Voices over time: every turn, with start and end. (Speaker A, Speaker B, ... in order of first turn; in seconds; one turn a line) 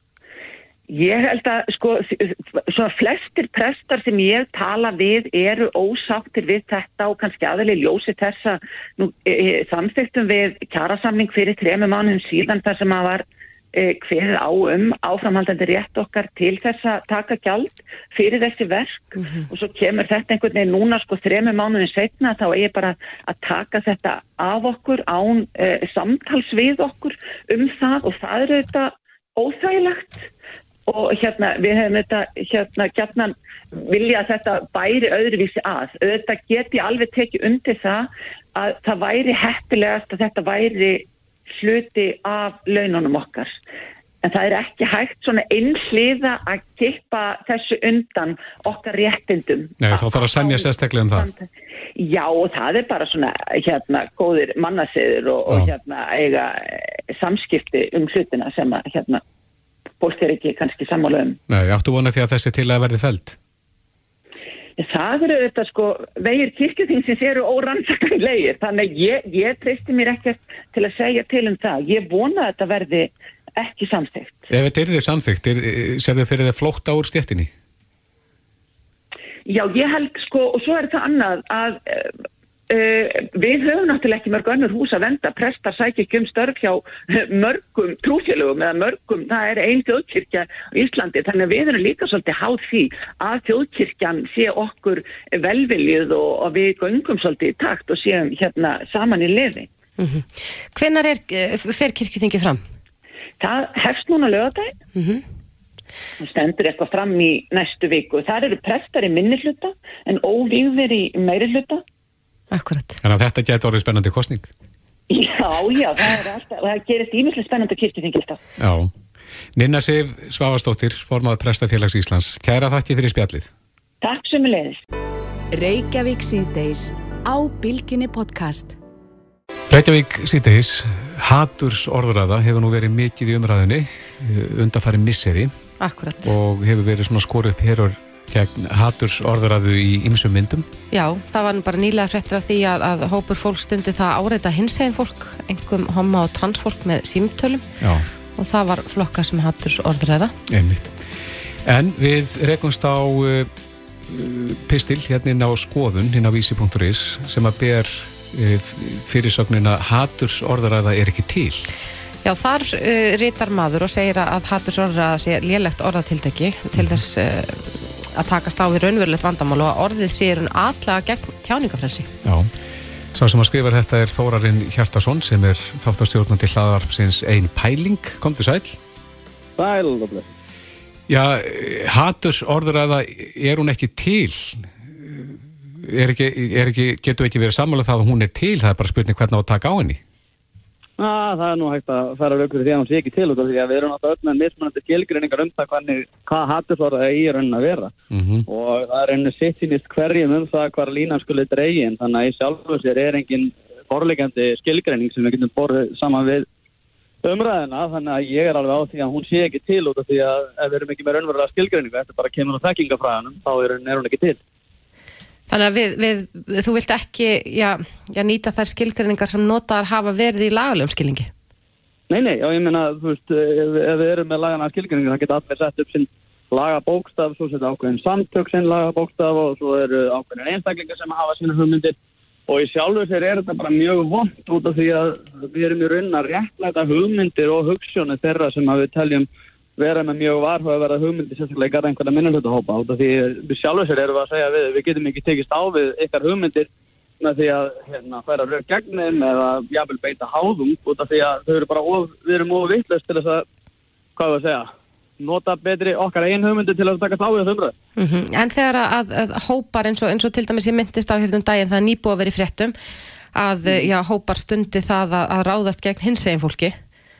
Speaker A: 0.9-30.3
Speaker A: 30.9-41.0
Speaker A: 41.6-43.5
Speaker A: 44.2-59.2
Speaker B: 49.8-51.3
Speaker A: 60.0-61.4
Speaker B: 61.5-63.4
Speaker A: 64.8-74.5
Speaker B: 74.5-77.5
Speaker A: 79.5-82.1
Speaker A: 82.7-99.7
Speaker C: 100.0-102.6
Speaker A: 103.4-104.7
Speaker C: 105.0-105.2
Speaker A: 106.2-111.8
Speaker C: 112.5-113.0
Speaker B: 113.0-114.5
Speaker A: 115.1-118.4
Speaker B: 118.6-118.9
Speaker B: 119.5-123.5
Speaker A: 124.0-124.8
Speaker D: 125.5-128.7
Speaker B: 129.7-135.5
Speaker C: 135.8-136.3
Speaker B: 136.2-140.7
Speaker C: 140.9-147.7
Speaker B: 147.8-148.1
Speaker C: 148.3-150.3
Speaker B: 150.5-151.0
Speaker B: 151.6-153.5
Speaker B: 154.1-161.7
Speaker C: 162.2-172.1
Speaker B: 166.7-167.0
Speaker B: 172.2-172.5
Speaker B: 173.1-178.8
Speaker E: 179.6-180.3
Speaker B: 181.1-190.0
Speaker E: 191.0-197.9
Speaker B: 198.1-198.5
Speaker E: 198.5-206.5
Speaker E: 207.2-214.4
Speaker C: 215.5-221.3
Speaker E: 222.1-231.9
Speaker E: 232.5-246.7
Speaker E: 247.2-253.4
Speaker E: 254.2-254.7
Speaker E: 255.2-257.7
Speaker C: 258.0-262.7
Speaker C: 263.3-266.8